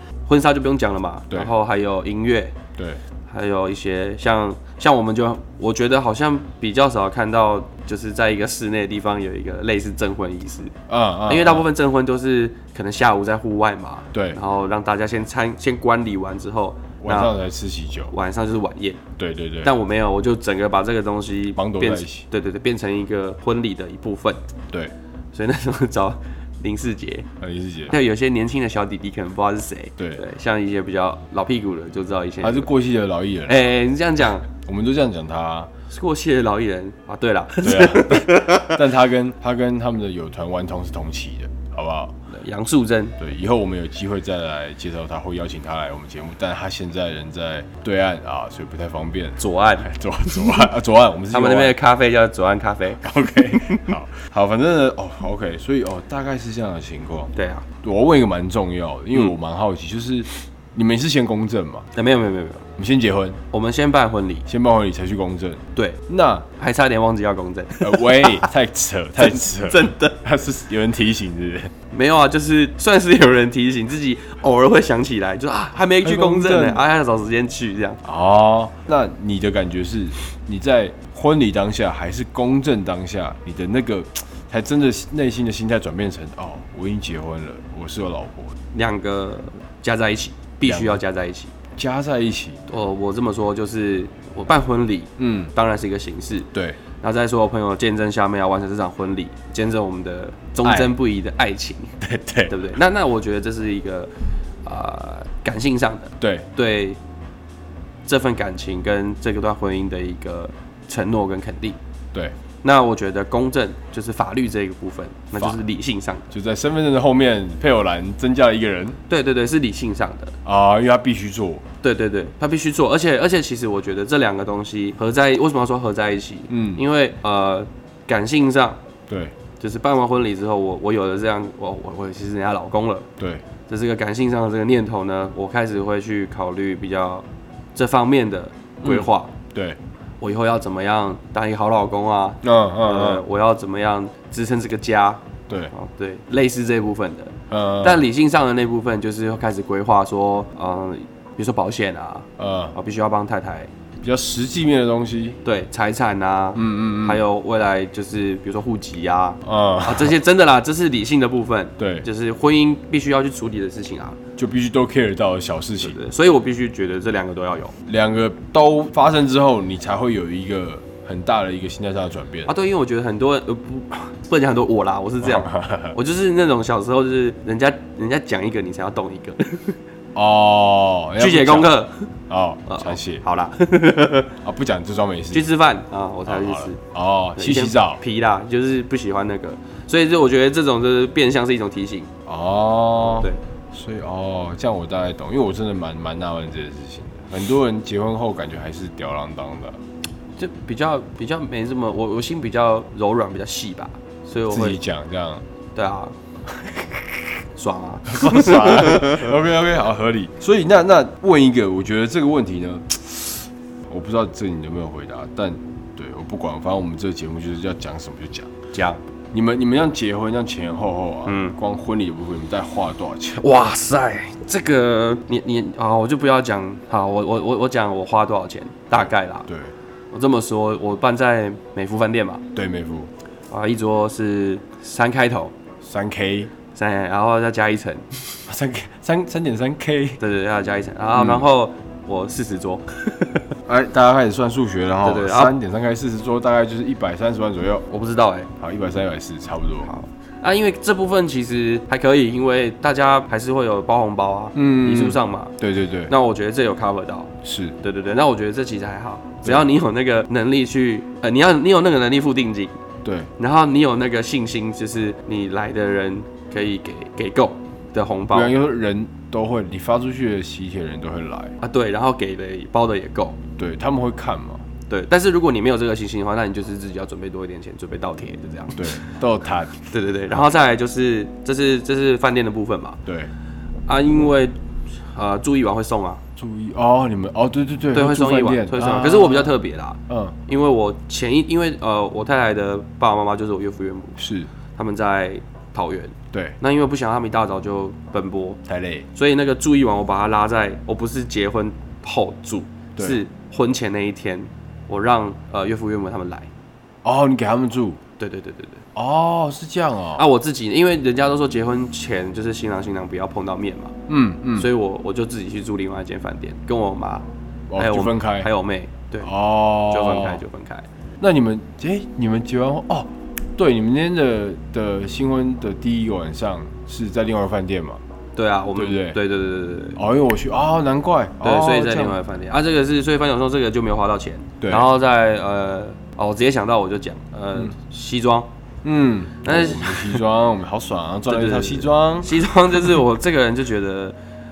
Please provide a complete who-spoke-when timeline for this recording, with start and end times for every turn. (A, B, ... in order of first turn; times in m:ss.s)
0:00.3-0:02.6 A
0:02.8-0:03.0 B
0:03.3-0:10.7 A
0:10.9-0:11.7 B
0:11.3-0:17.3 A
0:14.1-0:14.4 B
0:17.0-0:18.1 B
0:18.1-0:19.0 A
0:19.2-0:19.7 B
0:19.6-0:24.4 A
0:21.5-0:22.3 B
0:25.3-0:27.3 A
0:27.4-0:27.9 B
0:27.9-0:32.7 A
0:30.0-0:30.2 B
0:32.4-0:33.7 B
0:33.5-0:34.5 A
0:34.5-0:35.7 B
0:35.9-0:38.8 A
0:37.6-0:42.2 B
0:42.3-0:43.2 A
0:43.2-0:51.8 B
0:49.4-0:50.6 A
0:51.3-0:53.9 A
0:53.0-0:57.3 B
0:57.3-0:57.7 A
0:57.8-1:01.9 B
1:01.9-1:02.6 A
1:02.8-1:03.4 B
1:03.5-1:04.5 A
1:04.5-1:06.5 B
1:06.6-1:08.5 A
1:07.8-1:11.7 B
1:09.2-1:10.2 A
1:11.9-1:18.0 A
1:16.0-1:16.8 B
1:18.0-1:28.6 B
1:28.7-1:31.5 A
1:30.6-1:31.0 B
1:31.8-1:32.6 B
1:32.7-1:36.5 A
1:35.2-1:35.5 B
1:36.5-1:36.8 B
1:37.0-1:42.0 A
1:40.6-1:41.0 B
1:42.0-1:42.5 B
1:42.5-1:44.1 A
1:44.6-1:47.0 A
1:46.2-1:46.5 B
1:48.1-1:51.8 A
1:52.6-1:56.3 A
1:56.3-1:59.0 B
1:59.1-2:00.4 A
2:00.4-2:01.6 B
2:01.8-2:08.8 A
2:06.5-2:06.8 B
2:09.1-2:09.4 B
2:09.6-2:13.1 A
2:13.2-2:13.4 B
2:13.7-2:19.3 A
2:18.8-2:19.8 B
2:20.2-2:33.7 A
2:22.4-2:23.2 B
2:27.5-2:28.0 B
2:32.4-2:32.7 B
2:34.0-2:35.4 B
2:35.4-2:44.2 A
2:36.6-2:37.2 B
2:39.4-2:40.2 B
2:41.8-2:42.1 B
2:44.4-2:46.0 B
2:45.8-2:47.8 A
2:47.9-2:52.5 B
2:52.5-2:59.8 A
2:55.2-2:56.0 B
3:00.2-3:03.2 B
3:01.2-3:02.1 A
3:02.7-3:04.4 A
3:04.4-3:05.5 B
3:05.3-3:06.8 A
3:06.3-3:08.0 B
3:07.4-3:12.1 A
3:12.3-3:19.8 B
3:13.0-3:13.4 A
3:20.4-3:24.8 A
3:24.5-3:25.4 B
3:25.8-3:26.2 A
3:26.6-3:27.2 B
3:27.6-3:29.3 A
3:28.1-3:38.5 B
3:38.7-3:39.0 A
3:39.3-3:43.4 B
3:41.3-3:41.6 A
3:43.4-3:49.5 A
3:48.9-3:49.7 B
3:50.1-3:52.4 A
3:52.5-3:53.1 B
3:53.5-3:55.5 A
3:55.8-3:56.5 B
3:56.7-3:58.4 A
3:58.5-4:00.2 B
4:00.2-4:03.5 A
4:01.2-4:01.5 B
4:03.7-4:07.9 B
4:05.0-4:05.5 A
4:07.9-4:08.5 A
4:08.6-4:09.9 B
4:09.8-4:15.5 A
4:14.6-4:16.1 B
4:16.1-4:22.8 A
4:17.4-4:17.8 B
4:23.0-4:23.3 B
4:23.4-4:28.5 A
4:28.3-4:31.6 B
4:31.6-4:33.4 A
4:33.6-4:34.6 B
4:34.9-4:39.1 A
4:38.8-4:39.8 B
4:39.8-4:43.0 A
4:43.1-4:43.3 B
4:43.9-4:46.2 A
4:46.4-4:49.6 B
4:47.9-4:58.6 A
4:50.1-4:50.4 B
4:54.2-4:54.5 B
4:56.3-4:56.6 B
4:58.7-4:59.1 B
4:59.1-5:06.5 A
5:07.0-5:08.0 B
5:08.2-5:08.8 A
5:09.0-5:10.3 B
5:10.2-5:14.0 A
5:14.1-5:14.7 B
5:14.6-5:17.3 A
5:17.7-5:18.5 B
5:17.8-5:19.3 A
5:19.2-5:20.4 B
5:19.8-5:20.9 A
5:21.2-5:28.0 B
5:28.4-5:30.0 A
5:28.8-5:29.2 B
5:30.0-5:32.2 B
5:31.4-5:38.5 A
5:34.6-5:34.9 B
5:38.8-5:43.0 B
5:39.4-5:40.2 A
5:41.3-5:44.2 A